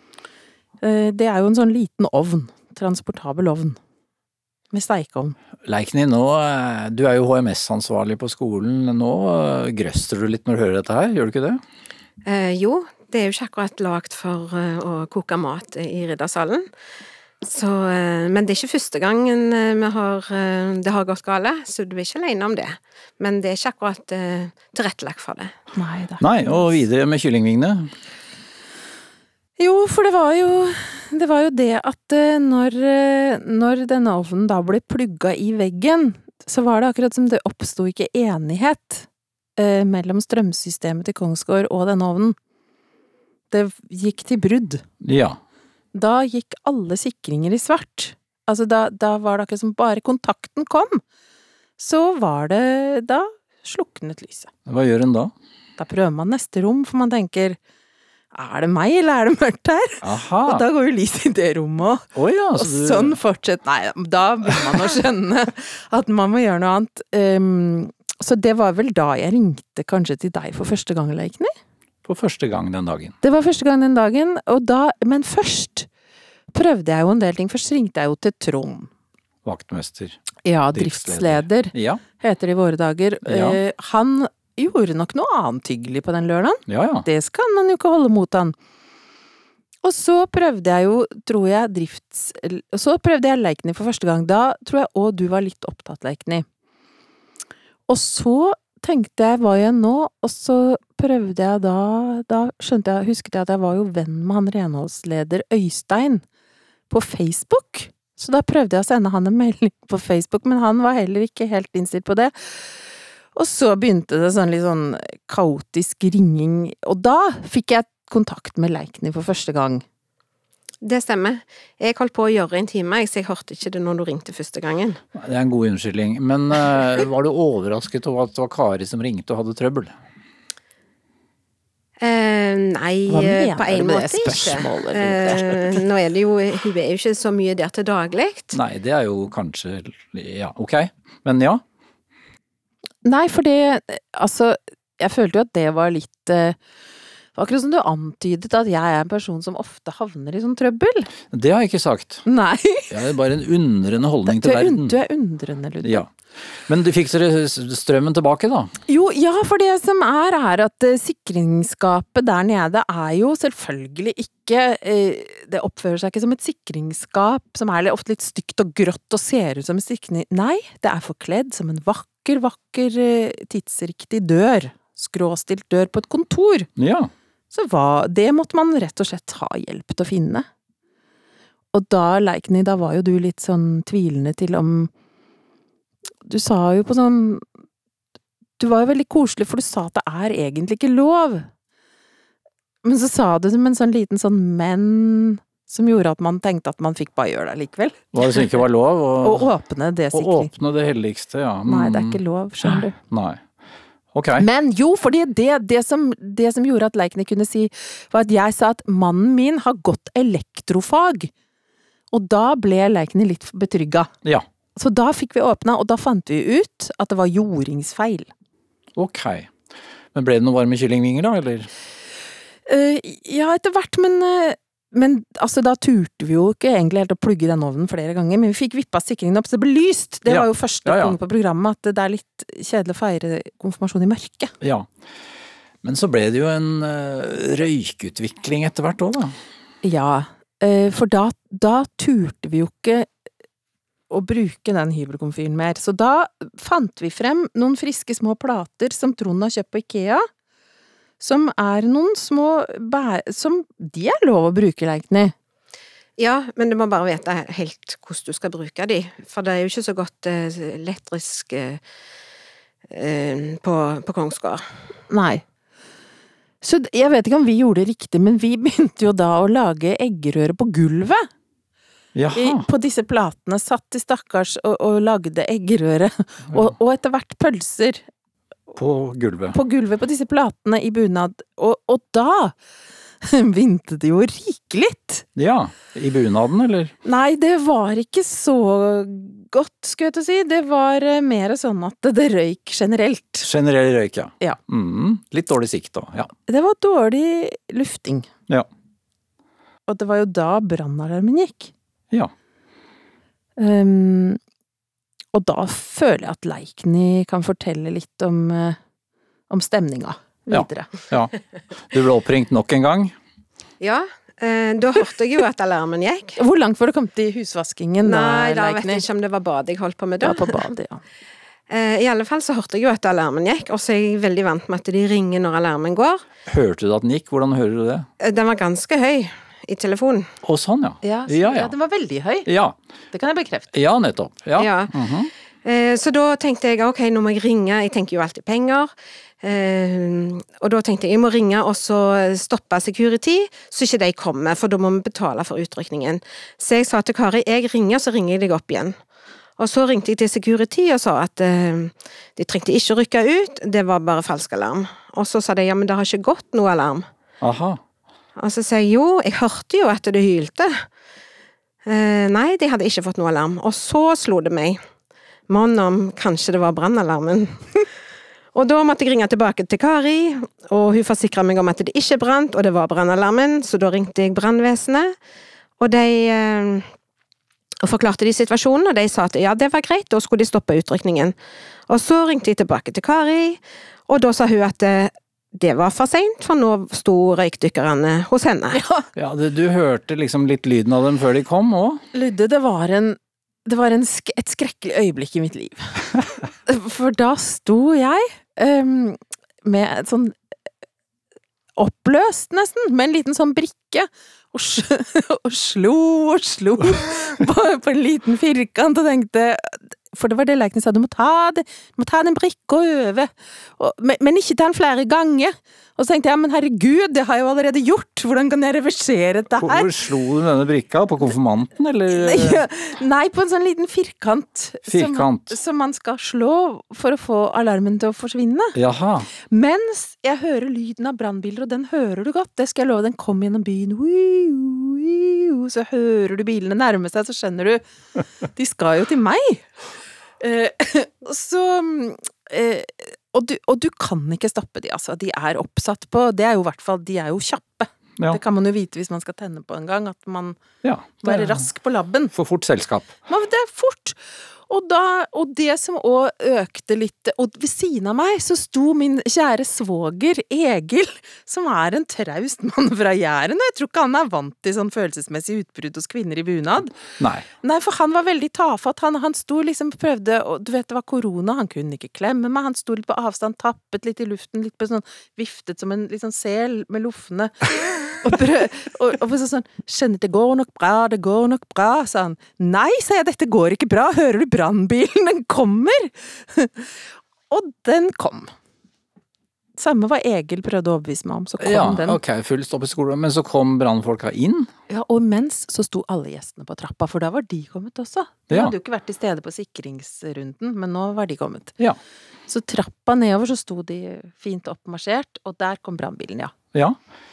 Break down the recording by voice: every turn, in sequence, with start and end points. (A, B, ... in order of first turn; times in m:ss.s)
0:00.8-0:03.8 A
0:04.7-0:05.4 A
0:05.6-0:11.6 B
0:12.2-0:16.6 C
0:17.4-0:25.5 C
0:25.7-0:26.8 A
0:26.2-0:27.9 B
0:29.6-0:42.3 A
0:43.5-0:44.8 A
0:45.0-0:45.4 B
0:45.9-0:51.0 A
0:51.8-0:54.5 A
0:54.6-0:55.3 B
0:55.8-0:57.6 A
0:58.3-1:11.5 A
1:00.0-1:00.6 B
1:02.1-1:03.2 B
1:12.0-1:13.1 B
1:13.2-1:15.9 A
1:16.5-1:18.9 A
1:19.4-1:20.2 B
1:20.4-1:28.5 A
1:20.7-1:22.0 B
1:23.2-1:23.6 B
1:26.7-1:27.0 B
1:29.8-1:36.4 A
1:37.9-1:46.2 A
1:46.9-1:52.3 A
1:53.3-1:59.8 A
2:00.8-2:05.0 C
2:05.2-2:09.9 B
2:12.0-2:18.6 C
2:13.1-2:15.8 A
2:18.5-2:21.6 B
2:23.0-2:26.6 A
2:27.3-2:31.1 A
2:31.3-2:32.2 B
2:32.2-2:33.0 A
2:32.9-2:35.0 B
2:34.2-2:36.0 A
2:35.8-2:36.1 B
2:36.7-2:38.7 B
2:38.9-2:56.7 A
2:56.8-2:57.1 B
2:57.5-3:00.4 A
3:01.7-3:04.9 A
3:06.2-3:07.4 A
3:08.6-3:11.5 A
3:12.8-3:18.6 A
3:18.1-3:19.5 B
3:19.2-3:20.5 A
3:20.1-3:23.4 B
3:21.6-3:23.0 A
3:24.1-3:24.4 B
3:24.4-3:31.3 A
3:32.1-3:34.1 A
3:34.7-3:38.3 A
3:39.0-3:39.5 B
3:40.1-3:41.7 B
3:42.6-3:54.5 A
3:50.3-3:51.2 B
3:54.6-3:54.9 B
3:55.8-3:59.4 B
3:59.8-4:03.1 A
4:04.1-4:10.2 A
4:11.2-4:15.3 A
4:16.2-4:21.8 C
4:22.9-4:24.6 C
4:25.1-4:25.4 A
4:26.6-4:31.3 A
4:32.1-4:32.6 B
4:32.3-4:38.0 A
4:38.7-4:39.6 B
4:39.5-4:42.5 A
4:43.2-4:45.2 A
4:45.4-4:46.9 B
4:47.0-4:53.5 A
4:53.4-4:56.3 B
4:56.5-4:58.3 A
4:59.9-5:01.7 A
5:03.6-5:04.4 A
5:05.3-5:08.8 A
5:09.5-5:10.9 A
5:10.5-5:11.3 B
5:11.8-5:13.1 B
5:13.8-5:16.4 C
5:16.4-5:19.0 A
5:18.0-5:20.6 C
5:20.2-5:21.0 A
5:21.7-5:26.2 C
5:26.4-5:28.1 B
5:28.2-5:30.3 C
5:30.4-5:31.7 B
5:31.0-5:32.5 A
5:32.4-5:32.7 B
5:33.1-5:33.7 A
5:33.7-5:35.3 B
5:34.6-5:34.9 C
5:35.6-5:38.9 C
5:39.4-5:48.9 C
5:49.6-5:57.0 C
5:57.4-5:57.8 B
5:58.4-6:00.8 C
6:01.8-6:04.8 C
6:05.5-6:07.8 C
6:08.5-6:15.1 C
6:15.8-6:16.8 C
6:17.8-6:21.3 C
6:21.9-6:28.8 C
6:28.7-6:29.0 A
6:29.1-6:32.0 B
6:32.1-6:40.4 A
6:41.8-6:59.9 A
6:59.6-7:02.6 B
7:02.1-7:08.8 A
7:04.9-7:05.6 B
7:08.7-7:09.3 B
7:09.4-7:17.8 A
7:18.4-7:19.6 A
7:20.4-7:30.6 A
7:30.8-7:31.6 B
7:31.2-7:32.3 A
7:32.3-7:33.1 B
7:33.3-7:46.9 A
7:47.2-7:47.4 B
7:47.6-8:06.9 A
8:07.5-8:08.5 A
8:09.8-8:12.2 A
8:11.6-8:14.7 B
8:14.9-8:21.7 A
8:22.5-8:26.5 A